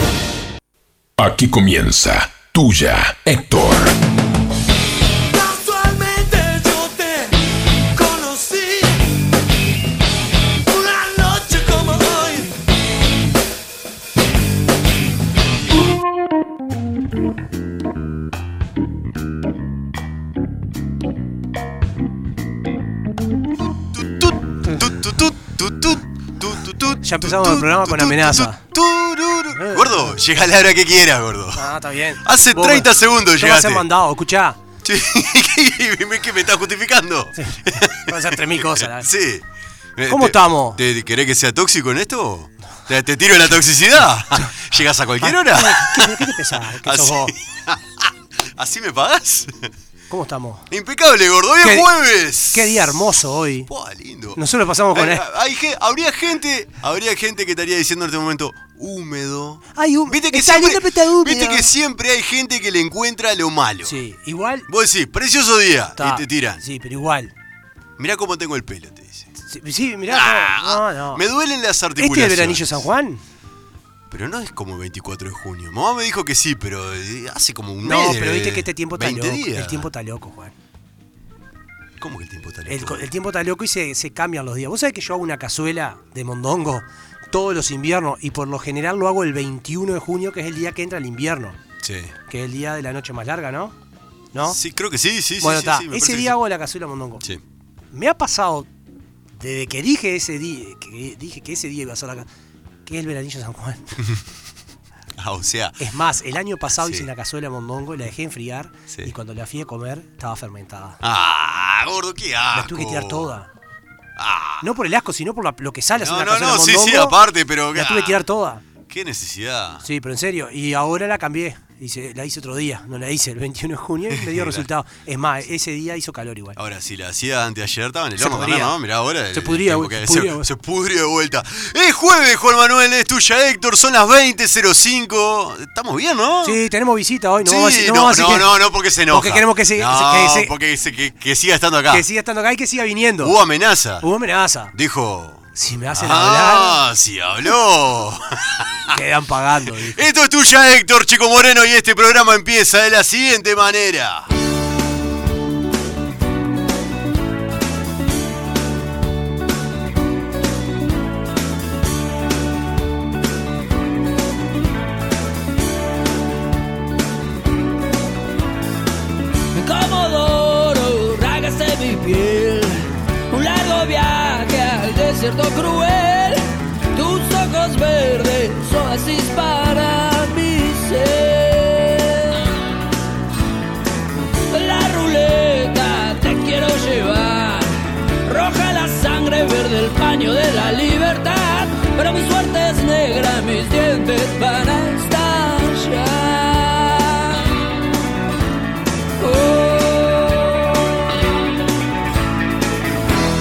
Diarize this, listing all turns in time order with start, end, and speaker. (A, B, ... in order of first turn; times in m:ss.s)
0:01.2-0:04.0 A
0:05.3-0:07.4 B
0:08.0-0:09.1 B
0:10.7-0:12.6 B
0:23.9-0:31.7 C
0:27.0-0:28.6 D
0:29.5-0:30.2 D
0:31.6-0:34.6 D
0:32.2-0:33.9 C
0:34.8-0:39.4 C
0:37.4-0:39.1 D
0:40.0-0:49.7 C
0:40.1-0:40.8 D
0:45.2-0:47.3 D
0:50.1-0:50.7 D
0:50.7-0:53.1 C
0:51.6-0:51.9 D
0:52.5-0:53.7 D
0:53.7-0:54.4 C
0:54.4-0:55.2 D
0:54.9-1:04.0 C
0:59.8-1:01.7 D
1:03.8-1:04.7 D
1:04.7-1:06.6 C
1:06.0-1:07.3 D
1:08.0-1:09.3 C
1:09.4-1:11.2 D
1:10.1-1:12.8 C
1:12.0-1:13.2 D
1:14.1-1:19.9 C
1:17.8-1:20.5 D
1:22.0-1:23.0 C
1:22.7-1:31.6 D
1:31.8-1:32.1 C
1:32.3-1:33.8 D
1:34.3-1:34.6 D
1:34.5-1:36.4 C
1:35.4-1:37.2 D
1:37.9-1:38.7 D
1:39.4-1:42.3 D
1:42.9-1:44.0 D
1:45.2-1:45.8 C
1:45.8-1:51.0 D
1:46.8-1:47.1 C
1:51.0-1:53.3 C
1:52.5-1:53.5 D
1:54.2-1:54.7 C
1:54.6-1:57.2 D
1:56.0-1:58.2 C
1:57.7-1:58.6 D
1:58.9-1:59.8 C
1:59.8-2:06.6 D
2:04.1-2:04.7 C
2:06.6-2:16.6 C
2:08.2-2:08.8 D
2:09.3-2:10.5 D
2:16.4-2:18.5 D
2:17.4-2:22.0 C
2:19.1-2:20.5 D
2:21.9-2:23.4 D
2:23.2-2:24.1 C
2:24.0-2:24.7 D
2:24.7-2:29.0 C
2:25.6-2:26.8 D
2:28.9-2:30.0 D
2:29.8-2:34.3 C
2:49.5-3:02.4 E
3:04.5-3:17.6 E
3:19.2-3:20.9 E